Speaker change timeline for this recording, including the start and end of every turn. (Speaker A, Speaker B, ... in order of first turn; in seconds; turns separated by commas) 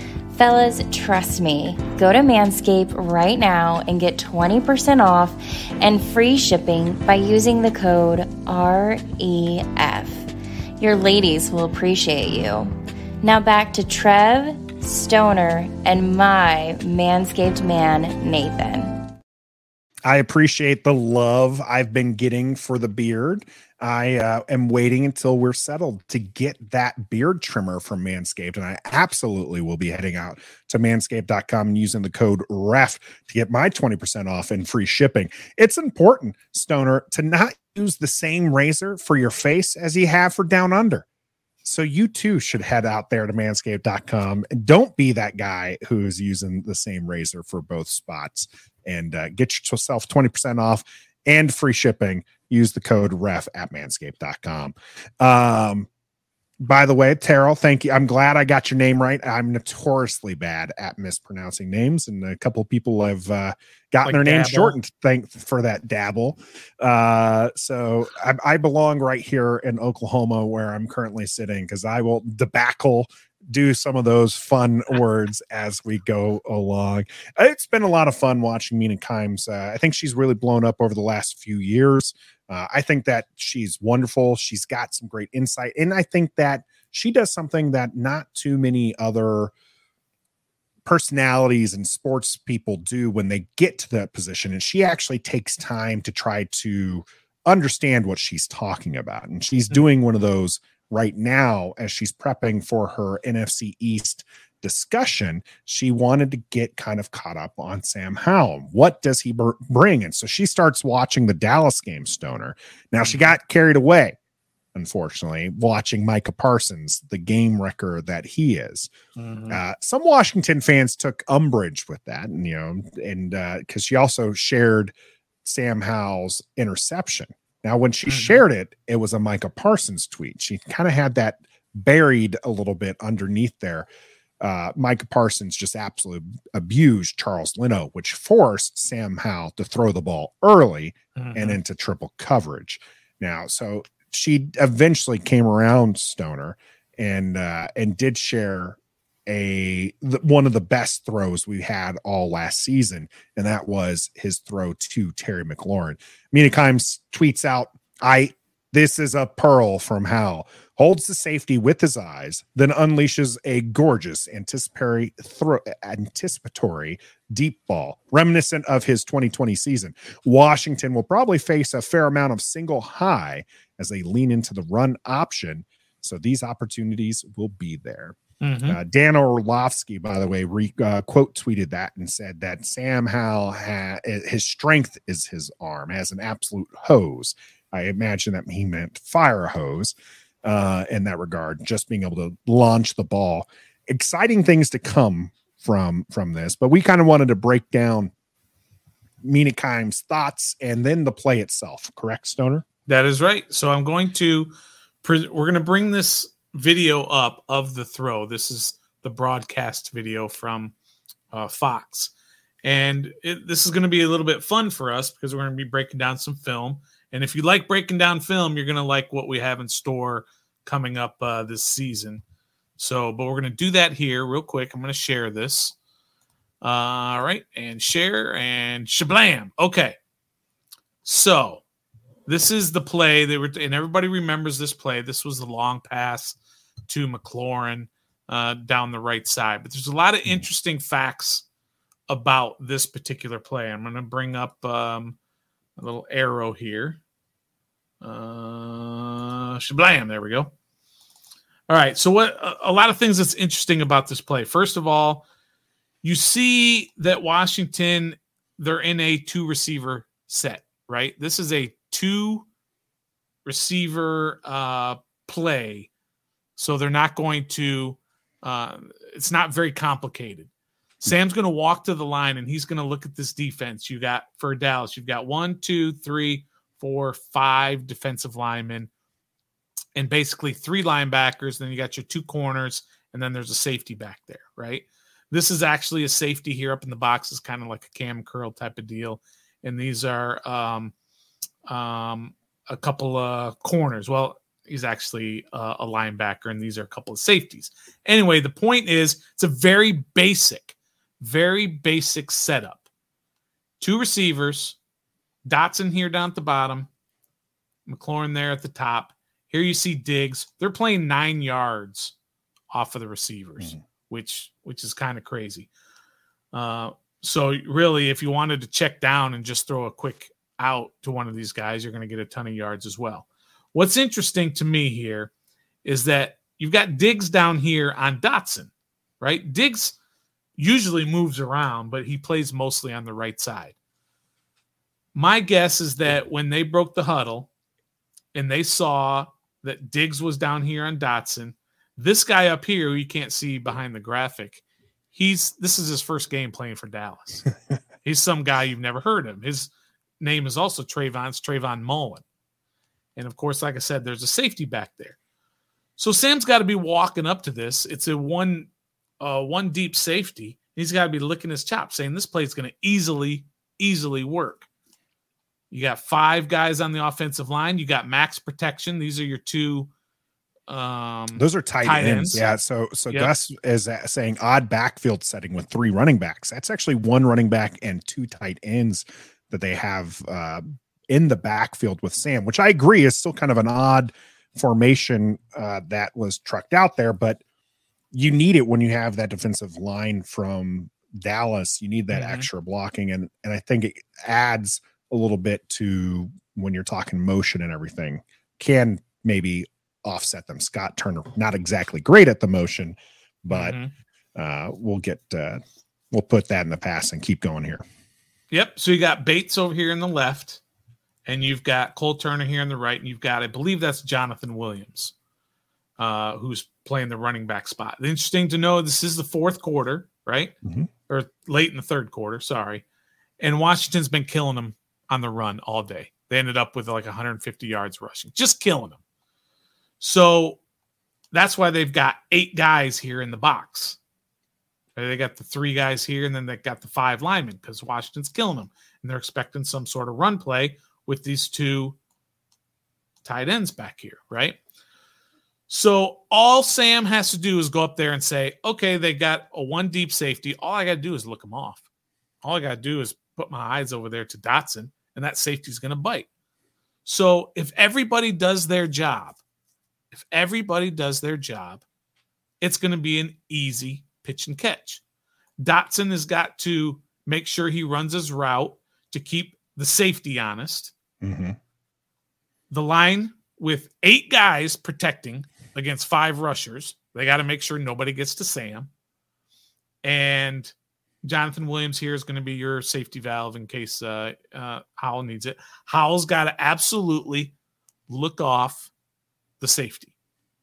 Speaker A: 0.3-10.3, Speaker A: 10.8-12.7, Speaker A: 13.2-18.9, Speaker B: 20.1-41.0, Speaker B: 41.6-55.9, Speaker B: 56.6-89.5, Speaker C: 64.0-64.8, Speaker B: 90.9-114.2, Speaker C: 113.0-113.3, Speaker B: 114.8-118.9, Speaker C: 119.2-119.6, Speaker B: 119.5-124.9, Speaker B: 125.5-133.9, Speaker C: 128.1-128.4, Speaker B: 134.4-198.1, Speaker C: 141.2-141.6, Speaker C: 178.4-178.8, Speaker B: 199.2-202.7, Speaker C: 202.9-210.8, Speaker C: 211.3-212.1, Speaker C: 212.6-222.2, Speaker C: 222.8-225.8, Speaker C: 226.6-230.0, Speaker C: 231.1-231.6, Speaker C: 232.3-241.4, Speaker C: 242.1-245.2, Speaker C: 245.8-247.0, Speaker C: 248.0-250.5, Speaker C: 251.7-255.2, Speaker C: 256.0-262.5, Speaker C: 263.5-265.9, Speaker C: 266.6-270.5, Speaker C: 271.0-278.9, Speaker C: 279.9-290.9, Speaker C: 291.7-302.9, Speaker C: 303.8-304.8, Speaker C: 305.4-306.9, Speaker C: 307.9-312.1, Speaker C: 312.7-315.7, Speaker C: 316.5-325.3, Speaker C: 325.9-330.0, Speaker C: 330.6-333.8, Speaker C: 335.1-337.5, Speaker C: 338.3-344.6, Speaker C: 345.1-347.5, Speaker C: 348.0-352.2, Speaker C: 353.2-355.2, Speaker C: 356.0-364.7, Speaker C: 365.7-369.9, Speaker C: 370.7-372.4, Speaker B: 371.4-387.4, Speaker B: 388.1-403.8, Speaker C: 392.1-392.5, Speaker C: 403.5-403.9, Speaker B: 404.4-405.6, Speaker B: 406.1-407.8, Speaker C: 408.5-410.6, Speaker C: 411.3-415.1, Speaker C: 416.0-420.6, Speaker C: 421.1-422.8, Speaker C: 423.4-429.0, Speaker C: 430.0-430.6, Speaker C: 431.3-434.0, Speaker C: 435.0-442.0, Speaker C: 443.2-444.6, Speaker C: 445.7-451.8, Speaker C: 452.4-456.3, Speaker C: 457.1-459.4, Speaker C: 460.1-461.8, Speaker C: 462.6-465.0, Speaker C: 465.6-470.9, Speaker B: 471.2-471.6, Speaker C: 472.7-478.9, Speaker C: 480.0-487.6, Speaker C: 488.1-488.9, Speaker C: 489.6-490.1